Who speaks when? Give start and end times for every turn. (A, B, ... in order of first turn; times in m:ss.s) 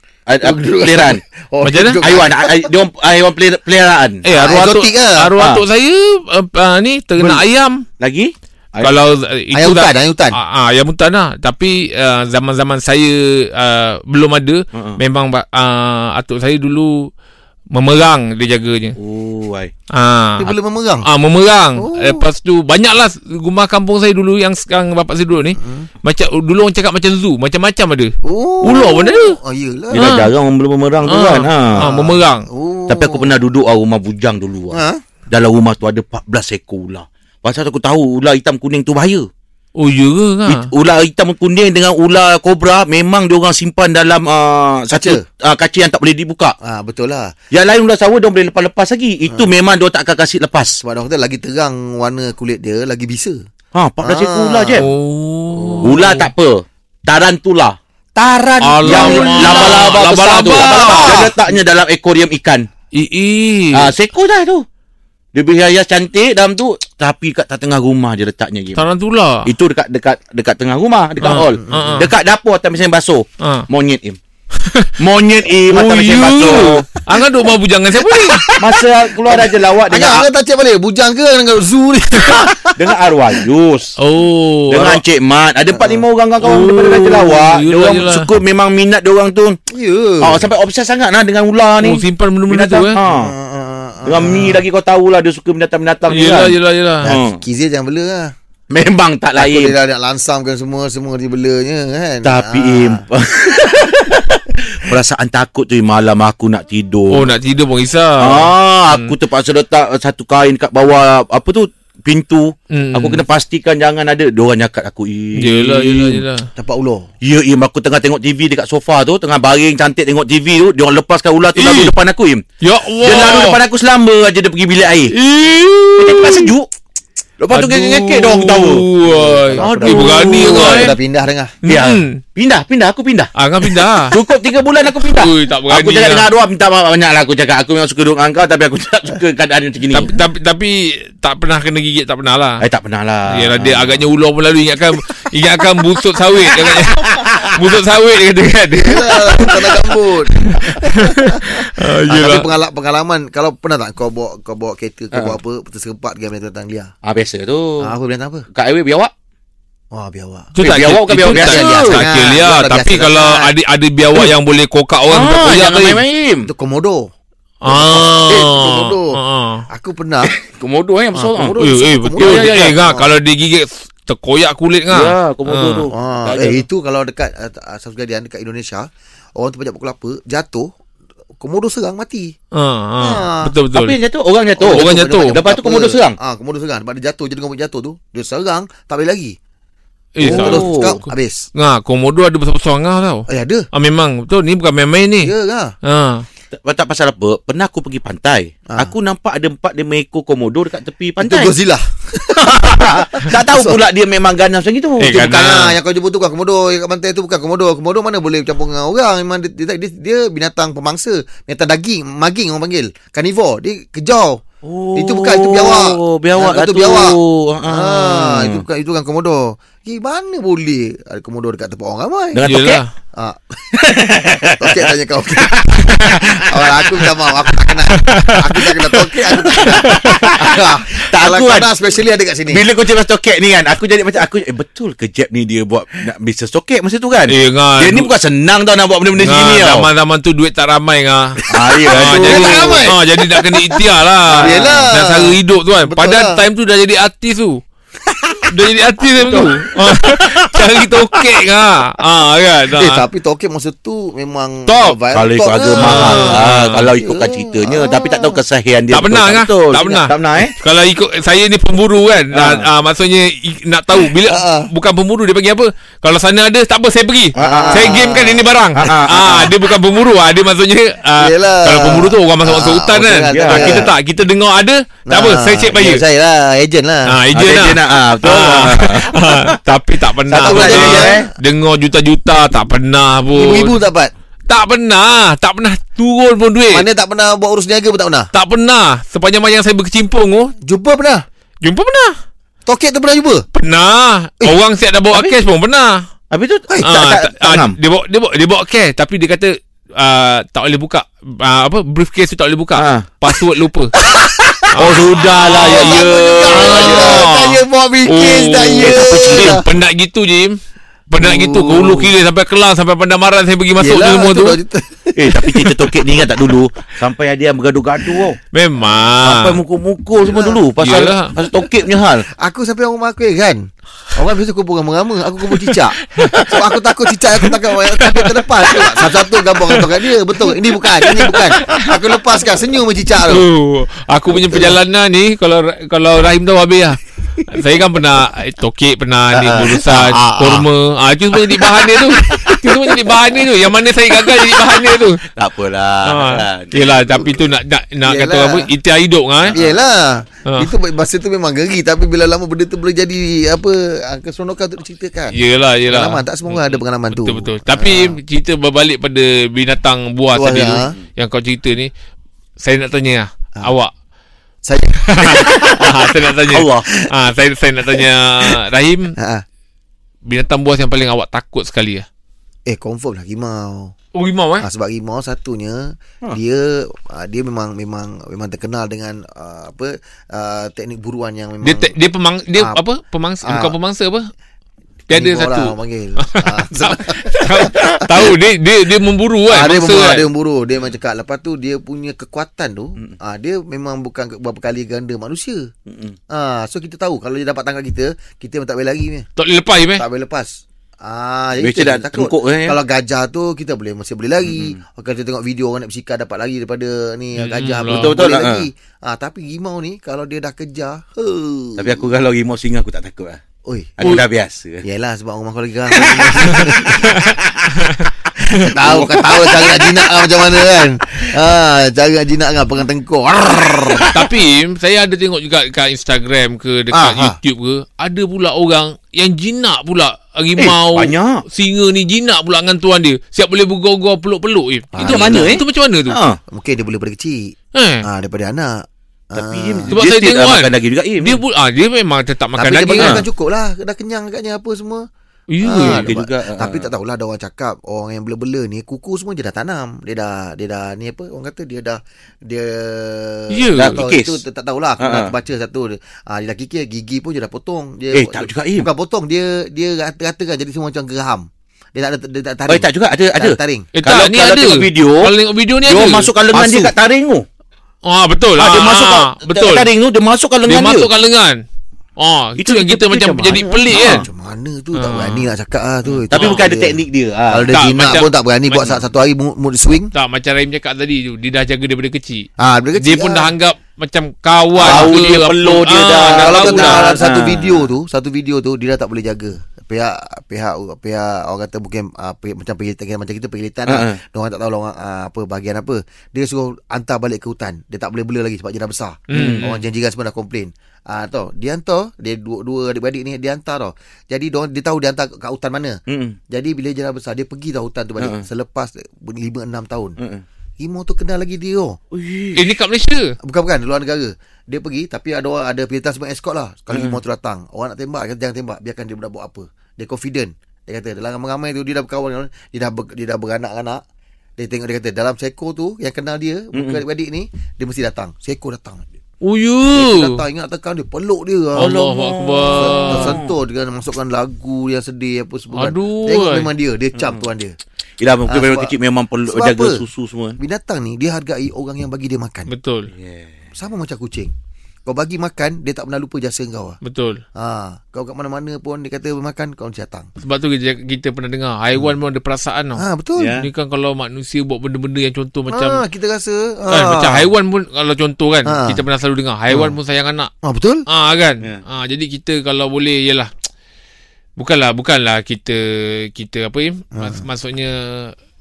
0:00.3-0:01.2 A
0:00.4-0:02.7 B
0:01.6-0:02.0 C
0:02.0-0:04.2 A
0:04.2-0:07.8 C
0:04.3-0:05.3 B
0:05.4-0:05.6 A
0:07.2-0:07.4 B
0:08.0-0:08.9 A
0:08.8-0:17.1 C
0:09.5-0:10.4 B
0:17.7-0:19.0 C
0:19.0-0:19.7 A
0:19.9-0:20.5 C
0:20.4-0:21.0 B
0:21.0-0:28.1 C
0:21.8-0:22.3 B
0:25.6-0:25.9 B
0:28.2-0:30.2 B
0:28.6-0:29.1 A
0:28.6-0:29.3 C
0:29.9-0:30.3 C
0:29.9-0:31.8 A
0:31.0-0:32.4 C
0:31.8-0:33.4 B
0:32.9-0:39.3 A
0:34.7-0:35.0 B
0:39.8-0:40.7 C
0:40.4-0:46.5 A
0:44.9-0:45.2 B
0:46.6-0:47.3 B
0:47.5-0:50.8 A
0:50.8-0:53.4 B
0:53.7-0:54.8 A
0:54.0-0:54.8 B
0:54.8-0:56.3 C
0:55.5-0:56.0 B
0:55.8-1:02.6 A
0:58.6-1:01.2 C
0:58.8-0:59.9 B
1:00.4-1:01.3 B
1:02.9-1:03.9 C
1:03.7-1:04.6 A
1:05.3-1:08.8 A
1:08.7-1:09.5 C
1:09.4-1:14.2 A
1:11.2-1:12.1 C
1:11.7-1:12.0 B
1:13.4-1:13.7 C
1:14.6-1:14.9 C
1:15.0-1:16.8 A
1:15.7-1:18.5 C
1:18.0-1:23.4 B
1:18.6-1:20.3 A
1:22.6-1:23.9 A
1:24.0-1:25.0 C
1:24.7-1:29.6 A
1:25.7-1:26.0 B
1:26.4-1:28.3 C
1:29.7-1:30.5 B
1:30.2-1:33.3 A
1:31.8-1:33.0 C
1:33.1-1:34.6 B
1:34.0-1:37.4 A
1:36.1-1:37.1 C
1:37.0-1:38.3 B
1:38.7-1:39.7 A
1:39.4-1:43.0 B
1:42.2-1:47.3 A
1:47.1-1:49.1 C
1:48.2-1:56.2 A
1:52.7-1:53.2 C
1:55.4-1:56.5 C
1:56.6-1:57.1 B
1:57.2-2:02.4 A
2:01.5-2:01.9 C
2:02.6-2:03.6 C
2:03.0-2:05.1 A
2:05.1-2:06.5 C
2:06.0-2:06.7 A
2:07.4-2:08.8 A
2:07.5-2:11.0 C
2:09.0-2:11.6 B
2:09.6-2:10.9 A
2:11.6-2:12.2 C
2:11.6-2:20.1 A
2:13.4-2:14.2 C
2:15.1-2:16.3 C
2:19.9-2:22.6 C
2:22.6-2:24.0 A
2:23.3-2:32.5 C
2:28.8-2:36.9 B
2:37.0-2:37.8 A
2:37.8-2:38.4 B
2:38.5-2:39.1 A
2:39.9-2:40.5 B
2:40.5-2:46.0 C
2:40.6-2:42.0 A
2:41.2-2:43.5 B
2:45.1-2:46.5 A
2:46.4-2:47.1 B
2:47.6-2:49.6 C
2:47.6-2:49.1 B
2:49.7-2:50.3 B
2:50.3-2:51.5 A
2:51.1-2:53.1 B
2:51.6-2:55.9 C
2:52.2-2:52.7 A
2:54.9-2:56.6 A
2:55.9-3:00.7 B
3:01.4-3:02.3 B
3:02.5-3:04.0 C
3:03.0-3:03.5 B
3:03.7-3:06.1 A
3:04.6-3:09.3 B
3:04.7-3:05.4 C
3:10.2-3:10.7 C
3:10.2-3:11.4 B
3:10.2-3:10.9 A
3:11.5-3:15.3 C
3:13.3-3:13.6 B
3:15.2-3:15.7 B
3:15.8-3:16.2 C
3:16.6-3:21.5 A
3:21.2-3:23.8 B
3:22.4-3:25.1 A
3:25.0-3:25.7 C
3:25.0-3:34.4 B
3:34.6-3:38.6 A
3:35.0-3:42.5 B
3:42.3-3:42.8 A
3:42.4-3:42.9 C
3:43.1-3:43.8 B
3:43.8-3:44.8 A
3:44.6-3:52.6 B
3:45.5-3:46.2 A
3:48.0-3:48.8 C
3:49.7-3:50.3 C
3:50.2-3:50.5 A
3:51.1-3:51.7 A
3:52.5-3:59.8 A
3:57.3-3:58.1 C
3:59.2-4:07.6 C
4:01.5-4:02.9 A
4:01.7-4:03.4 B
4:04.3-4:04.9 A
4:04.4-4:06.4 B
4:08.5-4:13.0 C
4:12.7-4:16.4 B
4:14.6-4:15.0 C
4:15.1-4:20.5 A
4:15.7-4:16.9 C
4:17.0-4:18.4 B
4:18.9-4:36.0 C
4:22.3-4:22.6 A
4:24.2-4:24.7 B
4:27.4-4:28.0 A
4:27.4-4:28.4 B
4:28.8-4:29.5 A
4:31.2-4:33.9 B
4:33.3-4:33.9 A
4:35.1-4:37.1 B
4:37.1-4:43.7 C
4:37.3-4:39.6 A
4:40.3-4:41.2 A
4:40.4-4:41.3 B
4:43.3-4:44.1 B
4:44.5-4:46.8 C
4:46.7-4:48.3 B
4:48.3-4:50.5 C
4:50.6-4:51.2 B
4:51.6-4:52.1 C
4:52.6-4:53.4 B
4:53.5-4:56.0 C
4:56.3-4:57.8 A
4:56.8-5:03.9 C
5:02.8-5:03.1 A
5:04.2-5:04.6 B
5:04.7-5:07.3 A
5:04.7-5:10.6 C
5:05.3-5:09.6 B
5:08.8-5:09.6 A
5:11.1-5:14.6 C
5:11.2-5:12.1 B
5:13.8-5:16.2 B
5:15.2-5:18.4 A
5:18.5-5:19.6 C
5:19.2-5:22.2 A
5:20.2-5:20.6 B
5:20.8-5:21.3 C
5:22.4-5:23.6 B
5:24.1-5:33.5 B
5:26.0-5:26.6 C
5:31.1-5:31.9 C
5:33.3-5:45.2 C
5:34.3-5:34.7 B
5:39.4-5:40.6 B
5:42.1-5:43.0 B
5:45.3-5:47.4 A
5:46.0-5:49.5 C
5:48.0-5:48.7 B
5:49.5-5:55.3 B
5:55.3-6:01.9 C
5:55.9-5:58.2 B
6:00.3-6:00.9 B
6:02.6-6:03.9 C
6:04.6-6:05.7 B
6:05.0-6:09.1 C
6:06.5-6:06.8 A
6:09.2-6:09.4 B
6:10.3-6:12.0 C
6:12.7-6:13.9 B
6:14.1-6:14.6 C
6:14.6-6:21.9 B
6:21.6-6:24.3 C
6:22.5-6:22.8 B
6:23.4-6:23.7 B
6:25.1-6:25.7 C
6:25.1-6:28.3 B
6:26.3-6:30.2 C
6:29.5-6:35.6 B
6:35.9-6:36.1 A
6:36.3-6:39.3 B
6:39.4-6:40.0 C
6:40.0-6:40.5 B
6:41.0-6:52.0 B
6:41.6-6:42.8 A
6:44.4-6:44.8 A
6:47.4-6:48.2 C
6:47.9-6:48.6 A
6:51.8-6:53.4 A
6:53.6-6:54.2 B
6:54.0-6:54.8 A
6:54.8-6:57.0 B
6:55.9-6:58.1 A
6:56.6-6:58.7 C
6:58.6-7:04.1 B
6:58.8-7:00.3 A
7:04.1-7:16.2 C
7:06.9-7:07.4 B
7:10.6-7:11.4 A
7:14.9-7:15.6 B
7:15.0-7:16.4 A
7:16.5-7:18.7 B
7:17.7-7:18.0 C
7:19.3-7:19.9 B
7:19.3-7:21.4 A
7:19.9-7:23.2 C
7:22.6-7:25.0 B
7:25.5-7:26.1 C
7:25.6-7:43.9 B
7:25.7-7:26.9 A
7:33.5-7:34.1 C
7:33.8-7:34.4 A
7:35.0-7:35.3 A
7:38.1-7:38.9 A
7:42.7-7:45.3 A
7:43.9-7:46.9 C
7:45.8-7:47.4 A
7:48.0-7:49.9 C
7:48.6-7:51.1 A
7:50.6-7:51.6 C
7:52.2-7:54.2 C
7:52.6-7:54.2 A
7:53.9-7:57.0 B
7:54.9-7:55.5 C
7:56.3-7:57.7 A
7:56.3-7:56.6 C
7:57.5-8:00.1 B
7:57.7-7:58.3 C
8:00.1-8:02.5 C
8:02.6-8:03.5 B
8:03.0-8:07.2 C
8:04.8-8:07.9 A
8:04.8-8:05.1 B
8:06.3-8:26.0 B
8:13.9-8:14.2 A
8:19.3-8:19.8 C
8:19.3-8:19.6 A
8:26.1-8:26.4 A
8:26.5-8:30.2 B
8:30.8-8:32.0 B
8:32.1-8:32.7 A
8:32.5-8:33.3 C
8:33.4-8:44.0 B
8:44.6-8:49.0 B
8:46.7-8:47.0 A
8:49.4-8:50.4 C
8:49.9-8:51.9 B
8:51.8-8:53.4 C
8:51.8-8:53.5 A
8:52.7-8:57.7 B
8:55.7-8:56.7 C
8:57.2-8:57.4 A
8:58.2-9:00.6 A
8:58.5-8:58.9 B
8:59.5-9:00.0 B
9:00.6-9:02.7 B
9:02.7-9:03.1 C
9:03.2-9:03.6 A
9:03.8-9:04.5 B
9:05.1-9:07.0 B
9:07.0-9:07.4 C
9:07.6-9:10.3 B
9:10.4-9:13.0 C
9:13.0-9:13.5 B
9:13.4-9:13.7 A
9:13.5-9:16.0 C
9:15.7-9:17.5 B
9:16.9-9:20.5 C
9:18.6-9:19.0 B
9:19.7-9:20.0 B
9:20.6-9:21.0 B
9:21.1-9:23.5 C
9:24.6-9:28.3 C
9:27.2-9:27.4 B